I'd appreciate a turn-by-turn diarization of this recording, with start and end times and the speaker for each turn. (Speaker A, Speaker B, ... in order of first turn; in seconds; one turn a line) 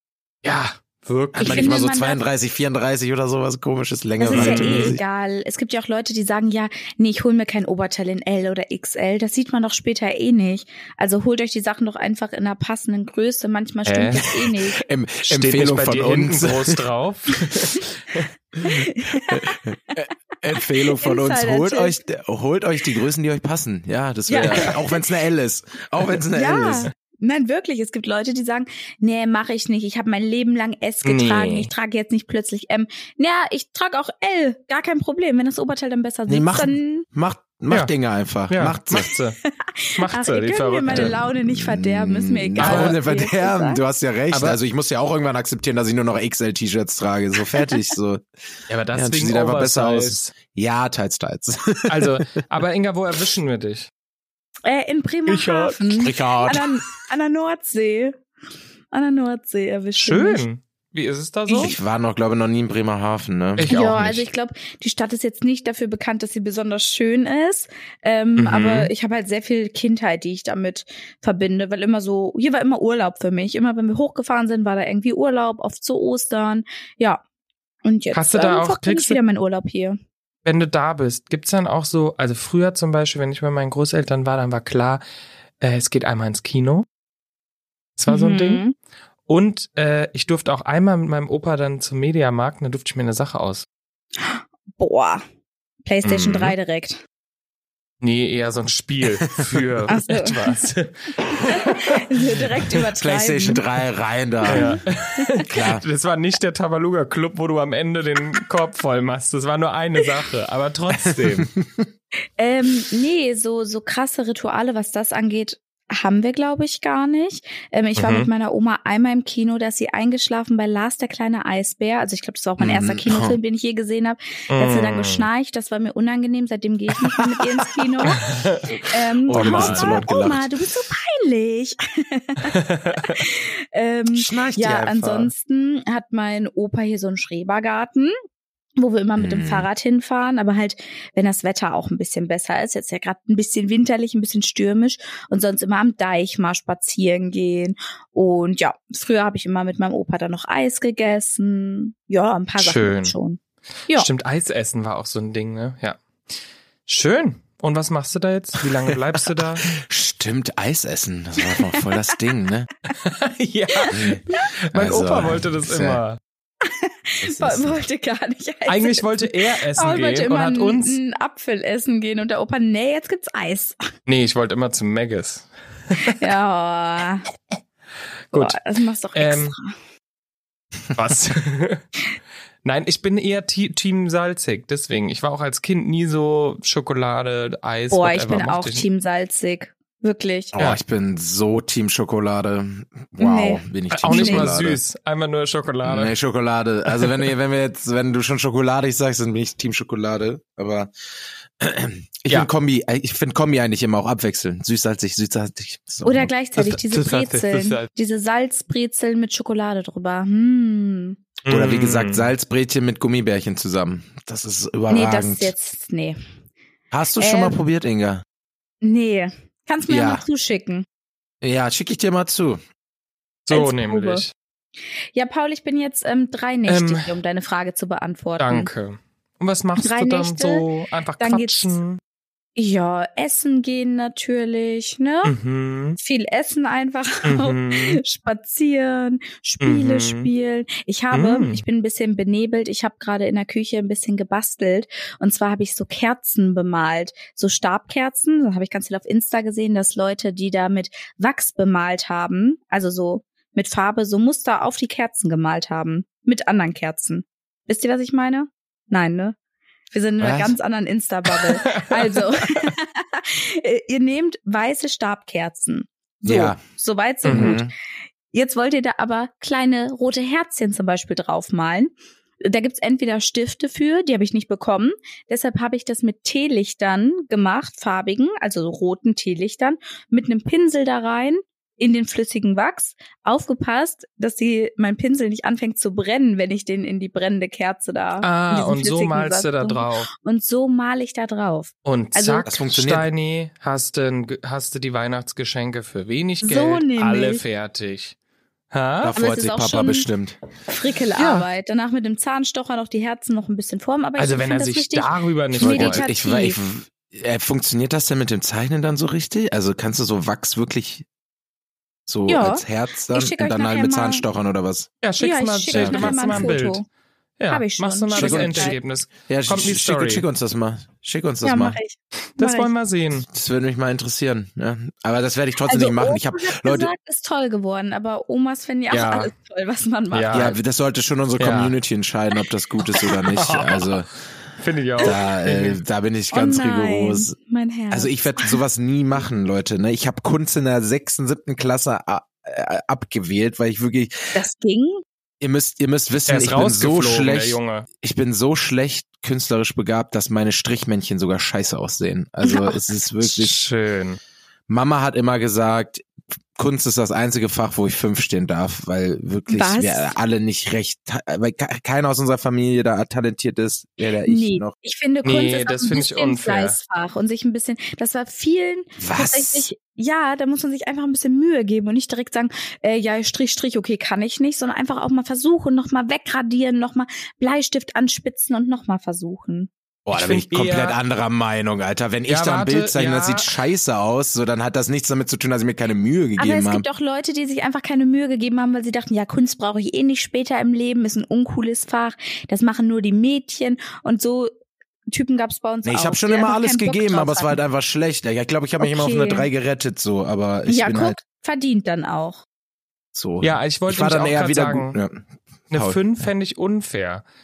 Speaker A: 0.4-1.7
Speaker B: 1.4-2.2
Speaker C: 1.4-5.0
Speaker B: 4.2-14.8
Speaker A: 4.3-5.0
Speaker A: 13.8-14.3
Speaker C: 14.2-16.8
Speaker A: 15.2-18.3
Speaker C: 18.6-26.9
Speaker B: 18.6-20.0
Speaker B: 20.5-21.9
Speaker B: 24.3-25.0
Speaker B: 26.3-37.0
Speaker A: 31.0-31.7
Speaker C: 36.3-39.1
Speaker A: 38.5-39.4
Speaker B: 39.4-43.8
Speaker A: 39.9-41.2
Speaker C: 40.9-48.2
Speaker A: 42.6-43.0
Speaker A: 44.3-44.6
Speaker B: 47.5-47.9
Speaker A: 48.7-50.3
Speaker C: 48.9-52.2
Speaker A: 51.9-53.9
Speaker B: 54.6-58.2
Speaker A: 55.3-56.7
Speaker C: 56.0-56.7
Speaker B: 58.9-60.4
Speaker A: 60.0-61.7
Speaker C: 61.6-64.2
Speaker A: 63.6-64.2
Speaker B: 63.7-77.2
Speaker A: 68.4-68.9
Speaker B: 77.8-80.0
Speaker A: 78.1-79.2
Speaker A: 80.4-85.0
Speaker A: 85.6-86.8
Speaker A: 88.0-88.6
Speaker B: 88.1-88.7
Speaker A: 89.3-93.7
Speaker B: 94.2-95.2
Speaker B: 95.8-97.0
Speaker A: 96.0-96.5
Speaker A: 98.0-101.9
Speaker C: 99.4-99.6
Speaker B: 99.9-100.5
Speaker B: 101.5-103.6
Speaker C: 102.9-104.8
Speaker B: 104.5-105.4
Speaker A: 104.5-111.5
Speaker C: 105.4-105.8
Speaker C: 110.9-111.9
Speaker B: 112.4-128.2
Speaker A: 118.0-118.3
Speaker C: 122.6-123.4
Speaker A: 124.5-125.3
Speaker C: 127.0-128.2
Speaker A: 128.2-130.1
Speaker B: 128.9-138.1
Speaker C: 129.3-130.5
Speaker A: 132.4-133.2
Speaker C: 134.1-134.8
Speaker A: 134.6-135.3
Speaker B: 138.8-154.1
Speaker C: 139.2-139.7
Speaker A: 152.6-153.2
Speaker A: 153.9-156.0
Speaker A: 156.8-159.7
Speaker C: 159.7-162.7
Speaker A: 162.9-166.2
Speaker B: 163.8-164.5
Speaker C: 163.9-166.0
Speaker B: 166.6-173.8
Speaker C: 167.2-167.8
Speaker A: 168.7-171.0
Speaker A: 174.1-176.2
Speaker B: 176.0-177.2
Speaker A: 178.3-178.6
Speaker B: 178.3-179.7
Speaker A: 179.1-179.5
Speaker A: 180.9-181.8
Speaker A: 182.6-188.9
Speaker B: 187.9-190.5
Speaker C: 190.5-194.8
Speaker B: 193.2-194.5
Speaker A: 193.9-196.2
Speaker C: 195.8-200.9
Speaker C: 201.6-206.3
Speaker B: 206.0-211.2
Speaker A: 206.6-207.9
Speaker A: 211.4-212.3
Speaker C: 211.5-215.5
Speaker B: 214.9-216.2
Speaker C: 216.9-218.2
Speaker B: 217.2-217.6
Speaker B: 218.8-220.8
Speaker C: 219.9-220.2
Speaker C: 221.4-222.6
Speaker A: 223.4-224.3
Speaker B: 223.5-224.2
Speaker B: 225.1-228.7
Speaker A: 226.7-227.1
Speaker A: 228.4-232.0
Speaker B: 229.8-230.7
Speaker B: 231.2-231.8
Speaker B: 232.6-235.3
Speaker A: 235.2-236.0
Speaker B: 236.0-259.4
Speaker A: 237.2-238.0
Speaker A: 239.6-240.3
Speaker A: 241.1-241.6
Speaker B: 259.9-267.7
Speaker C: 260.2-260.6
Speaker A: 261.6-262.7
Speaker C: 266.2-266.6
Speaker A: 267.2-267.6
Speaker C: 267.3-267.7
Speaker B: 268.3-292.5
Speaker A: 288.2-290.1
Speaker A: 291.8-298.1
Speaker C: 292.4-293.1
Speaker B: 296.4-297.4
Speaker A: 298.7-299.2
Speaker C: 299.0-300.4
Speaker B: 299.1-300.1
Speaker B: 300.7-306.6
Speaker A: 301.2-301.4
Speaker A: 304.2-306.0
Speaker C: 305.6-311.1
Speaker C: 312.1-314.9
Speaker B: 312.3-314.2
Speaker A: 315.0-316.8
Speaker B: 315.2-316.9
Speaker C: 315.7-316.5
Speaker A: 317.4-320.2
Speaker B: 317.5-318.8
Speaker C: 318.1-318.8
Speaker C: 319.3-321.8
Speaker B: 321.4-322.7
Speaker A: 322.4-323.3
Speaker C: 323.3-326.9
Speaker B: 325.7-330.5
Speaker A: 328.9-329.3
Speaker A: 330.1-330.6
Speaker C: 330.3-334.1
Speaker A: 331.4-331.8
Speaker A: 333.3-333.9
Speaker A: 334.6-335.8
Speaker C: 335.0-337.3
Speaker B: 336.3-338.6
Speaker C: 337.9-344.3
Speaker B: 344.3-345.0
Speaker C: 345.4-353.6
Speaker A: 346.3-347.9
Speaker B: 352.4-352.8
Speaker A: 353.2-354.2
Speaker C: 354.7-364.7
Speaker B: 359.5-360.1
Speaker B: 364.2-379.7
Speaker A: 365.2-366.8
Speaker C: 369.0-369.6
Speaker C: 380.1-386.8
Speaker A: 380.1-381.0
Speaker A: 382.3-383.5
Speaker B: 386.4-394.5
Speaker B: 395.1-397.6
Speaker C: 395.8-401.2
Speaker B: 398.8-399.5
Speaker B: 400.7-402.4
Speaker C: 403.1-406.0
Speaker A: 403.4-405.0
Speaker A: 405.7-407.2